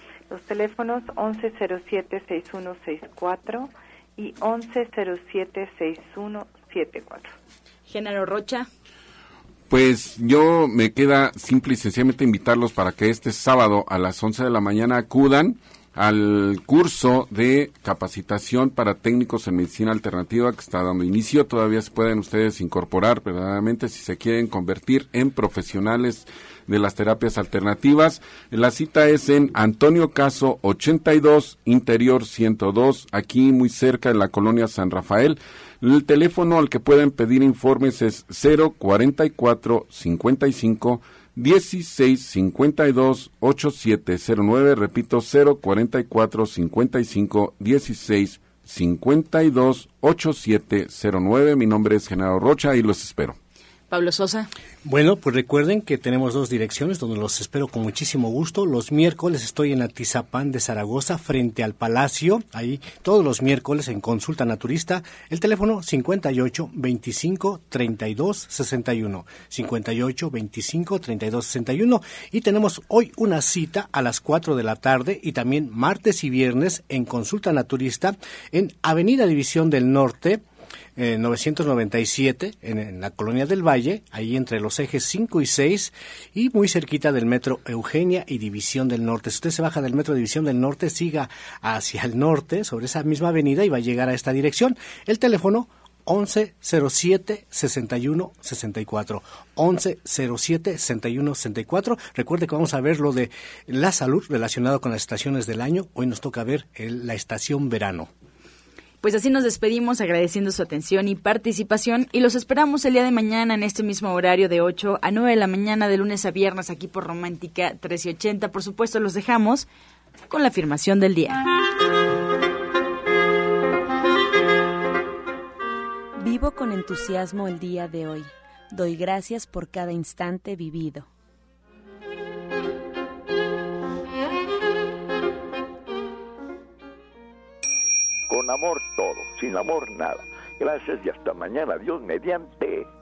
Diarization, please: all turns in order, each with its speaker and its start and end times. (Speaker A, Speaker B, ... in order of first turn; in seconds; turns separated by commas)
Speaker A: 0.3-7.3, Speaker B: 7.9-8.7, Speaker C: 9.7-53.4, Speaker B: 53.9-54.5, Speaker D: 54.9-80.4, Speaker D: 81.0-108.1, Speaker B: 109.0-119.7, Speaker B: 120.3-121.4, Speaker E: 126.2-131.1, Speaker F: 138.3-142.9